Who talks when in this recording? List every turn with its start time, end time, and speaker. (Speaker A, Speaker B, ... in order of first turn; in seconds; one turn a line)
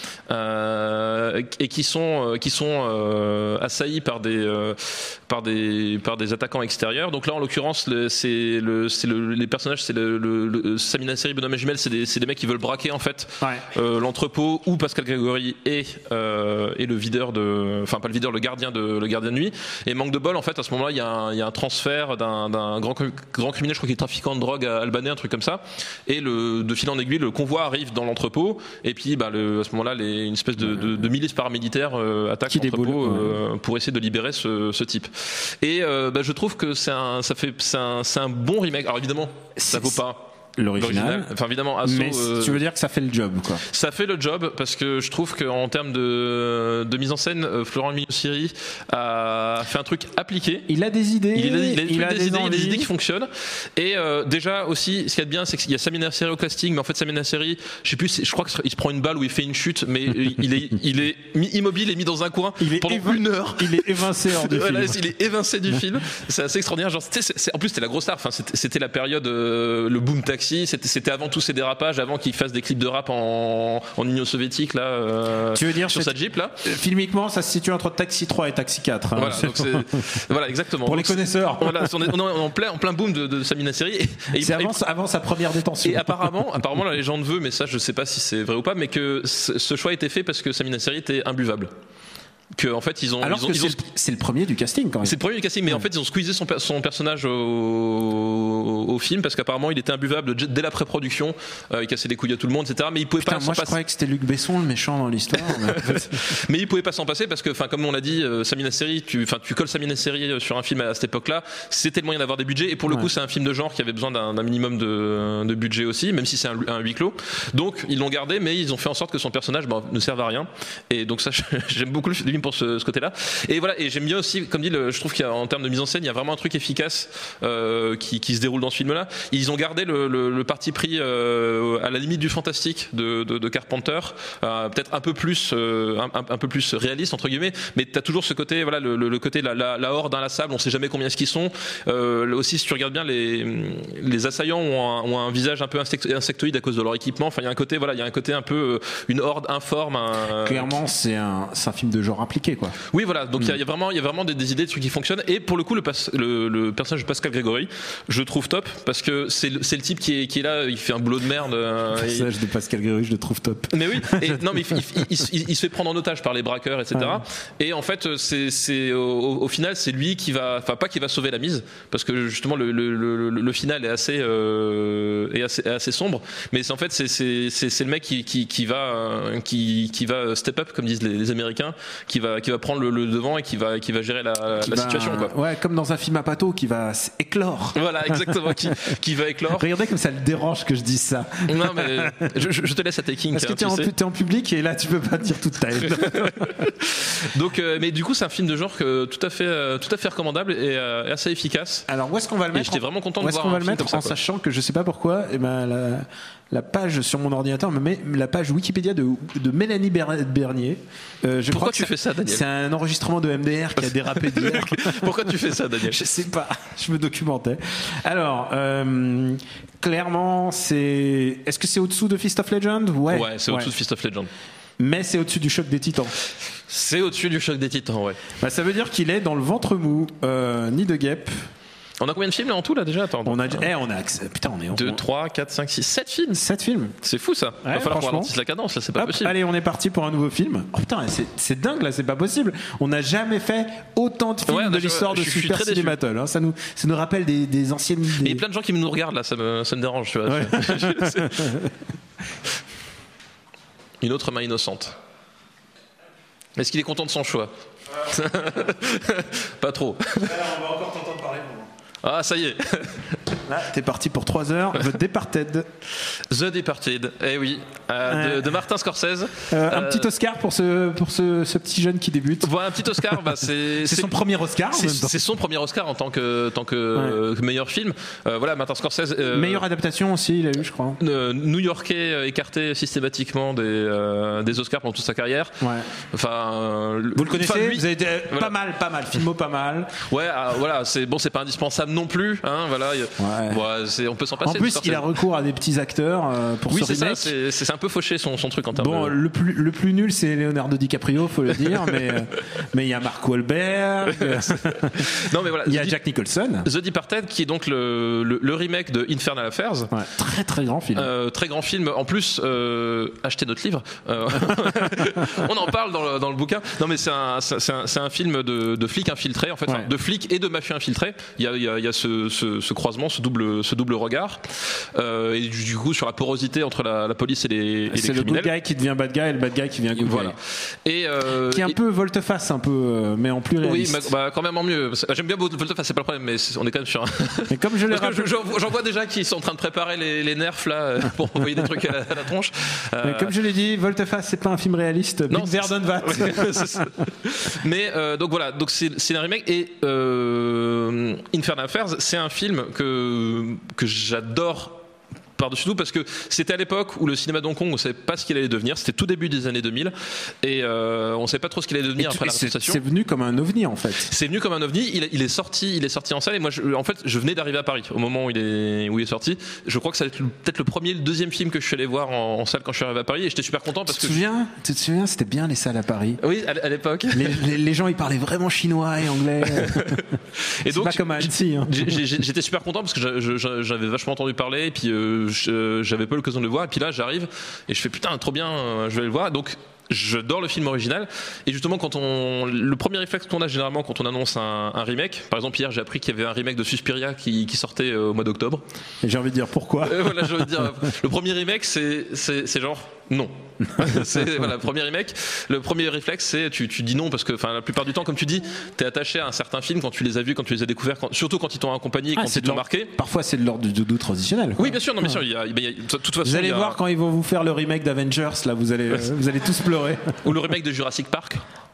Speaker A: 0.3-42.6
Speaker B: 32.5-33.4
Speaker B: 39.6-40.0
Speaker B: 40.6-41.3
Speaker B: 41.8-43.6
Speaker A: 43.6-50.7
Speaker B: 50.7-52.9
Speaker A: 51.4-76.6
Speaker B: 62.6-65.1
Speaker B: 75.5-80.2
Speaker A: 79.1-84.8
Speaker B: 80.8-82.1
Speaker B: 84.4-86.3
Speaker A: 85.8-91.7
Speaker A: 92.5-93.8
Speaker B: 93.2-95.2
Speaker A: 95.0-103.8
Speaker B: 103.2-106.3
Speaker A: 105.3-150.7
Speaker B: 150.4-152.8
Speaker A: 152.9-162.3
Speaker B: 162.0-164.6
Speaker A: 163.7-185.3
Speaker B: 166.9-167.2
Speaker B: 184.6-188.6
Speaker A: 187.8-189.7
Speaker B: 189.6-192.3
Speaker A: 191.5-193.9
Speaker B: 193.3-196.6
Speaker A: 195.8-201.9
Speaker B: 201.9-215.3
Speaker A: 202.5-204.2
Speaker A: 211.5-212.4
Speaker A: 213.9-216.0
Speaker B: 215.8-223.7
Speaker A: 223.1-224.3
Speaker B: 224.8-226.2
Speaker A: 226.7-228.2
Speaker B: 228.4-231.4
Speaker A: 232.0-233.7
Speaker B: 233.2-235.0
Speaker A: 234.7-236.4
Speaker B: 236.3-237.0
Speaker A: 237.0-239.3
Speaker B: 237.6-238.3
Speaker B: 239.0-248.4
Speaker A: 244.5-246.0
Speaker A: 248.2-251.6
Speaker B: 250.3-251.7
Speaker A: 254.0-254.9
Speaker A: 256.6-257.5
Speaker A: 258.0-260.4
Speaker B: 260.2-261.7
Speaker A: 262.0-263.2
Speaker B: 263.4-265.7
Speaker A: 266.1-270.1
Speaker B: 268.1-268.6
Speaker B: 269.5-272.5
Speaker A: 272.4-274.1
Speaker B: 273.8-275.2
Speaker A: 274.7-279.6
Speaker B: 279.3-281.0
Speaker A: 281.0-288.5
Speaker B: 285.6-285.9
Speaker B: 287.1-290.0
Speaker A: 290.0-295.1
Speaker B: 293.2-293.6
Speaker B: 294.4-297.3
Speaker A: 296.7-299.1
Speaker B: 298.8-306.7
Speaker A: 304.2-305.9
Speaker A: 306.6-309.9
Speaker B: 309.9-311.1
Speaker A: 310.9-328.5
Speaker B: 327.9-330.4
Speaker A: 329.9-331.8
Speaker B: 331.5-334.1
Speaker A: 333.6-343.4
Speaker B: 337.5-338.3
Speaker B: 343.0-346.9
Speaker A: 345.3-354.8
Speaker A: 355.4-362.8
Speaker B: 362.0-364.1
Speaker A: 364.1-374.2
Speaker B: 373.9-376.2
Speaker A: 376.2-377.4
Speaker B: 377.1-380.1
Speaker A: 379.4-398.6
Speaker B: 380.6-381.8
Speaker B: 399.0-400.6
Speaker A: 399.8-412.9
Speaker B: 412.2-415.2
Speaker A: 414.6-416.8
Speaker B: 416.2-420.2
Speaker A: 420.2-421.4